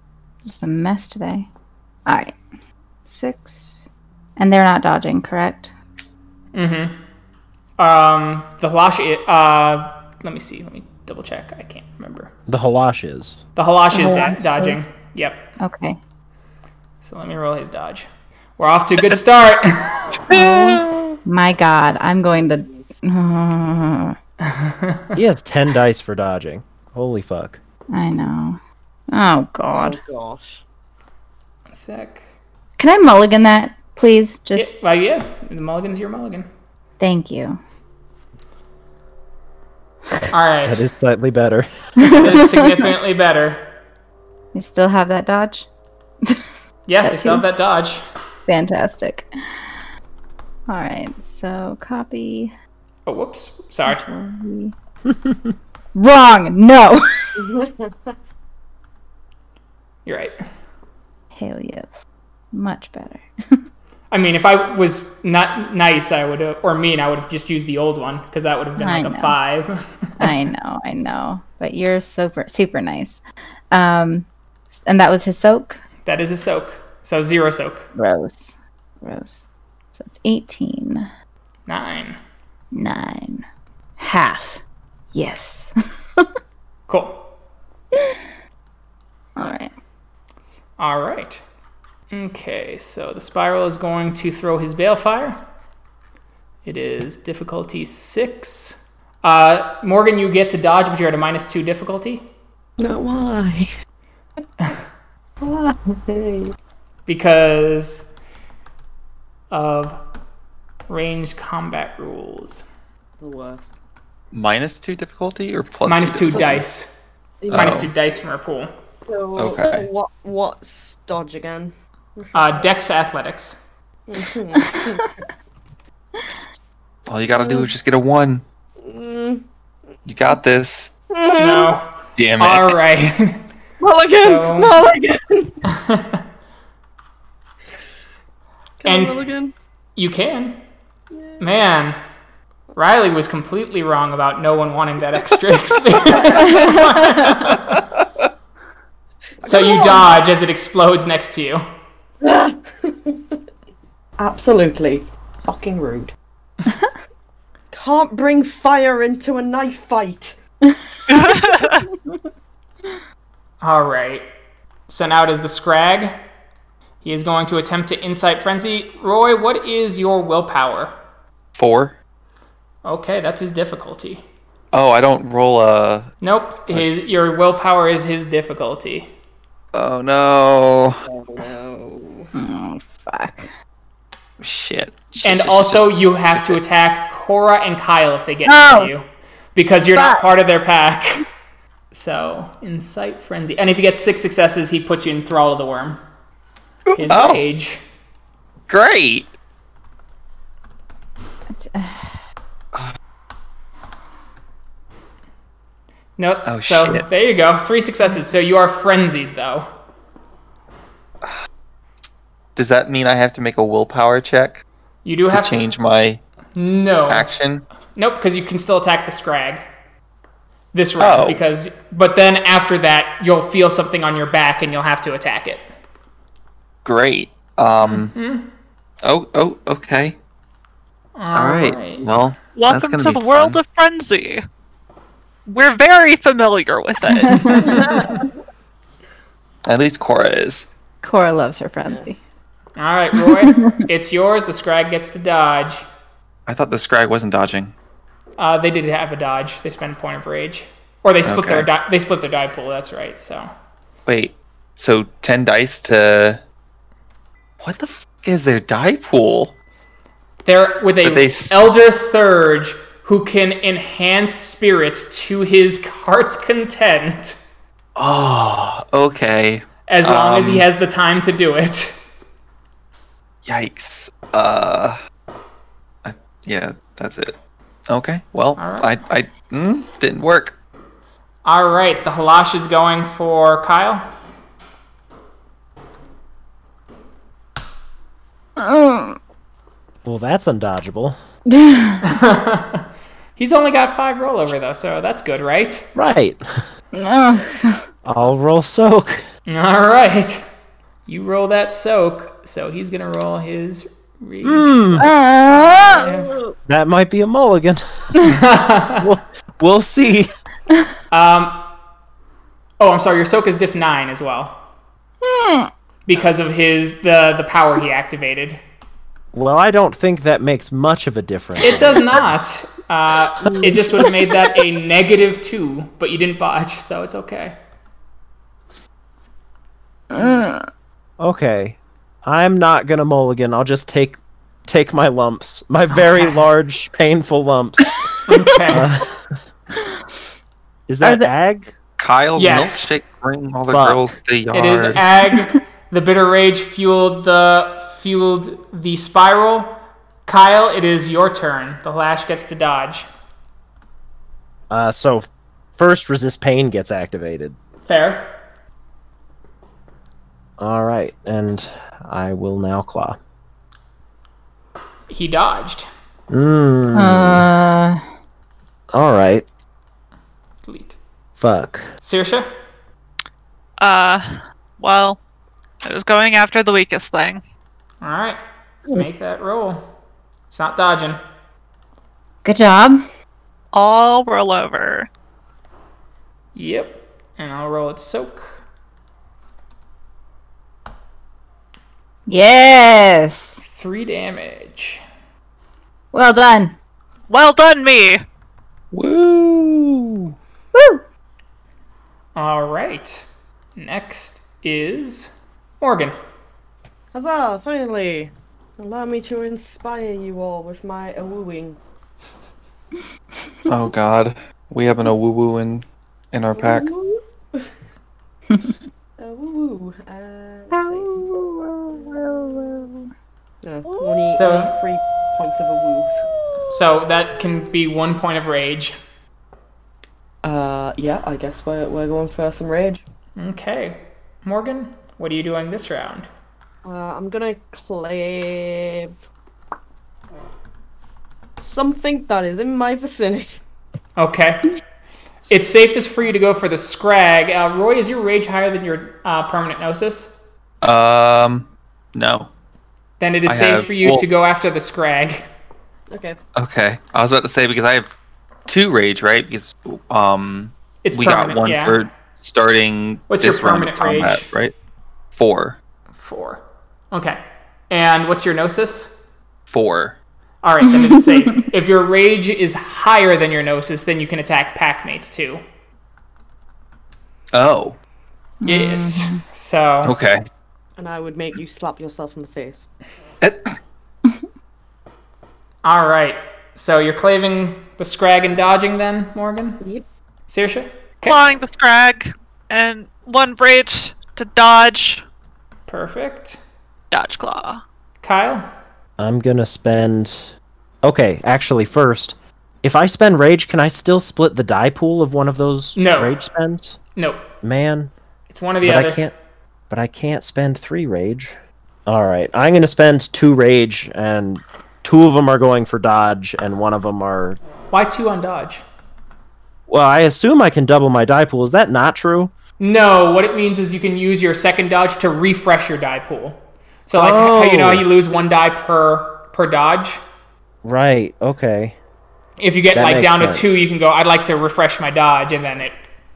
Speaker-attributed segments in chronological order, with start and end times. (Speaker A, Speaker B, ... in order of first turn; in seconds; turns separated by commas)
Speaker A: 0.5-1.5, Speaker A: 2.1-2.4, Speaker A: 3.1-5.7, Speaker B: 6.5-7.0, Speaker B: 7.8-12.3, Speaker C: 12.5-13.4, Speaker B: 13.6-15.5, Speaker A: 13.9-14.9, Speaker A: 15.6-16.0, Speaker B: 17.0-20.1, Speaker D: 20.2-21.2, Speaker A: 20.3-24.2, Speaker E: 22.6-23.0, Speaker B: 24.4-25.1, Speaker C: 25.1-27.6, Speaker A: 27.9-28.6, Speaker A: 29.1-30.0, Speaker E: 29.7-30.6, Speaker B: 31.7-32.2, Speaker A: 32.8-34.7, Speaker B: 34.6-36.5, Speaker A: 37.0-37.6, Speaker B: 40.3-40.8, Speaker C: 40.7-42.3, Speaker B: 42.0-43.7, Speaker A: 42.0-42.9, Speaker A: 44.5-45.7, Speaker B: 46.9-48.0, Speaker A: 47.0-47.5, Speaker A: 48.5-49.7, Speaker A: 50.7-52.5, Speaker B: 53.1-54.0, Speaker A: 53.9-54.7, Speaker A: 56.0-57.5, Speaker E: 57.4-58.1, Speaker B: 60.1-60.4, Speaker A: 61.3-62.0, Speaker A: 62.5-63.6, Speaker B: 64.1-70.3, Speaker A: 68.8-69.4, Speaker A: 70.2-75.8, Speaker B: 76.0-77.9, Speaker A: 78.0-81.1, Speaker B: 81.7-82.2, Speaker A: 82.7-83.5, Speaker A: 84.0-84.6, Speaker A: 85.1-86.3, Speaker B: 86.9-87.3, Speaker A: 88.0-88.2, Speaker A: 89.4-89.7, Speaker B: 90.8-91.4, Speaker B: 92.1-95.4, Speaker B: 96.7-102.3, Speaker E: 102.8-103.7, Speaker E: 105.4-106.5, Speaker B: 107.1-108.1, Speaker B: 109.5-110.0, Speaker B: 110.9-112.7, Speaker E: 113.2-113.7, Speaker D: 114.3-116.6, Speaker B: 115.9-116.9, Speaker E: 117.4-117.8, Speaker D: 117.5-117.9, Speaker B: 117.5-118.7, Speaker E: 119.1-122.7, Speaker D: 119.4-119.9, Speaker B: 122.3-123.5, Speaker E: 124.1-125.1, Speaker D: 127.1-128.4, Speaker E: 127.4-127.7, Speaker E: 128.8-129.4, Speaker D: 130.1-130.9, Speaker E: 131.1-131.7, Speaker B: 131.4-133.4, Speaker D: 132.2-132.8, Speaker E: 133.8-135.6, Speaker B: 134.1-134.7, Speaker B: 135.7-136.2, Speaker E: 138.8-139.5, Speaker B: 138.8-139.2, Speaker B: 140.0-140.6, Speaker E: 141.1-141.4, Speaker B: 141.4-142.0, Speaker B: 142.8-147.8, Speaker A: 146.4-147.2, Speaker E: 149.4-150.2, Speaker B: 149.4-151.6, Speaker E: 152.2-153.4, Speaker E: 154.2-156.1, Speaker E: 157.7-160.4, Speaker F: 161.1-161.8, Speaker B: 163.6-164.2, Speaker B: 164.9-166.2, Speaker B: 167.0-170.9, Speaker D: 171.6-172.0, Speaker B: 172.8-174.2, Speaker D: 174.7-176.1, Speaker B: 176.2-179.1, Speaker D: 179.7-181.0, Speaker E: 181.1-182.3, Speaker A: 182.3-183.5, Speaker D: 184.4-186.6, Speaker B: 185.2-191.2, Speaker A: 188.5-188.9, Speaker A: 189.9-190.2, Speaker B: 191.9-196.0, Speaker B: 196.9-197.8, Speaker D: 197.1-197.4, Speaker D: 198.7-199.3, Speaker A: 201.5-202.2, Speaker B: 206.2-209.7, Speaker D: 206.4-207.1, Speaker D: 212.6-214.6, Speaker B: 215.1-215.7, Speaker D: 215.3-216.2, Speaker B: 216.6-217.3, Speaker D: 217.1-217.7, Speaker B: 217.9-219.7, Speaker B: 220.7-225.7, Speaker D: 221.0-221.4, Speaker D: 226.8-228.2, Speaker B: 227.8-228.5, Speaker D: 229.0-230.2, Speaker B: 231.2-232.1, Speaker D: 231.3-233.6, Speaker F: 232.6-234.4, Speaker F: 235.5-237.8, Speaker A: 237.2-237.7, Speaker B: 237.4-237.9, Speaker E: 237.6-238.3, Speaker D: 239.7-240.7, Speaker A: 241.0-242.2, Speaker B: 242.8-245.9, Speaker A: 243.2-243.8, Speaker D: 246.5-247.7, Speaker B: 248.4-253.5, Speaker D: 251.2-251.7, Speaker D: 254.1-256.4, Speaker D: 257.6-259.5, Speaker B: 260.5-267.4, Speaker D: 261.0-261.7, Speaker D: 268.0-270.7, Speaker B: 269.9-272.0, Speaker D: 273.4-275.0, Speaker D: 276.0-277.4, Speaker D: 277.9-280.6, Speaker B: 278.6-278.9, Speaker B: 281.4-284.0, Speaker A: 288.6-289.2, Speaker C: 290.1-291.2, Speaker A: 291.5-292.0, Speaker B: 292.0-292.9, Speaker B: 293.4-295.9, Speaker C: 295.9-296.6, Speaker A: 296.9-297.9, Speaker C: 298.1-299.2, Speaker B: 299.5-300.4, Speaker B: 301.1-305.1, Speaker C: 304.4-305.1, Speaker A: 305.0-306.1, Speaker E: 305.5-306.6, Speaker B: 305.9-306.3, Speaker C: 306.7-308.3, Speaker B: 308.2-309.1, Speaker C: 309.0-310.3, Speaker B: 311.1-311.7, Speaker B: 312.8-314.6, Speaker A: 315.2-315.7, Speaker B: 316.1-318.6, Speaker C: 319.3-322.3, Speaker B: 321.6-327.6, Speaker C: 323.4-324.1, Speaker A: 330.1-330.6, Speaker C: 331.2-338.1, Speaker B: 338.3-338.9, Speaker C: 338.7-339.3, Speaker C: 340.9-341.8, Speaker A: 341.0-341.3, Speaker D: 342.0-345.0, Speaker B: 342.4-342.9, Speaker C: 343.7-344.1, Speaker B: 344.5-353.1, Speaker C: 354.7-357.6, Speaker B: 357.9-358.3, Speaker C: 360.6-363.2, Speaker B: 365.1-365.9, Speaker C: 366.3-367.5, Speaker A: 366.9-368.0, Speaker C: 368.9-369.5, Speaker B: 370.6-371.0, Speaker C: 371.4-371.9, Speaker B: 372.0-372.5, Speaker F: 373.8-375.2, Speaker F: 375.8-377.4, Speaker B: 378.0-379.9, Speaker B: 380.5-381.2, Speaker A: 382.4-383.0, Speaker F: 383.7-385.1, Speaker B: 386.6-388.6, Speaker A: 392.3-393.6, Speaker B: 393.6-395.0, Speaker A: 396.1-396.8, Speaker F: 397.3-398.2, Speaker D: 398.9-400.3, Speaker A: 400.8-401.0, Speaker B: 402.4-406.2, Speaker E: 407.1-411.8, Speaker D: 413.7-416.9, Speaker E: 416.6-417.7, Speaker E: 419.2-421.2, Speaker A: 420.7-423.1, Speaker E: 423.6-426.2, Speaker B: 424.3-424.7, Speaker B: 426.7-428.9, Speaker E: 430.4-433.0, Speaker B: 433.4-436.3, Speaker E: 436.9-439.2, Speaker E: 441.6-443.6, Speaker B: 444.2-444.7, Speaker B: 445.5-450.3, Speaker D: 450.8-452.5, Speaker B: 453.2-455.5, Speaker D: 453.5-454.2, Speaker E: 456.1-456.4, Speaker D: 456.6-458.1, Speaker D: 458.7-464.7, Speaker B: 461.1-462.0, Speaker B: 463.3-464.4, Speaker D: 465.3-465.8, Speaker B: 466.2-469.1, Speaker D: 469.7-470.2, Speaker B: 470.6-475.6, Speaker D: 477.5-478.0, Speaker A: 478.6-479.4, Speaker B: 478.6-480.1, Speaker D: 480.0-480.4, Speaker E: 481.0-482.9, Speaker D: 483.4-483.8, Speaker B: 485.8-489.8, Speaker B: 490.5-491.4, Speaker F: 491.2-495.2, Speaker B: 495.9-496.6, Speaker F: 497.1-497.8, Speaker B: 498.2-498.7, Speaker C: 499.2-500.5, Speaker C: 501.0-507.0, Speaker B: 506.0-506.4, Speaker B: 507.2-507.5, Speaker C: 507.6-508.1, Speaker B: 508.5-509.2, Speaker C: 508.8-509.3, Speaker C: 509.9-517.6, Speaker B: 517.9-518.8, Speaker C: 519.9-522.5, Speaker B: 522.8-530.2, Speaker C: 527.2-528.1, Speaker C: 530.8-532.0, Speaker B: 532.6-536.1, Speaker C: 532.9-533.8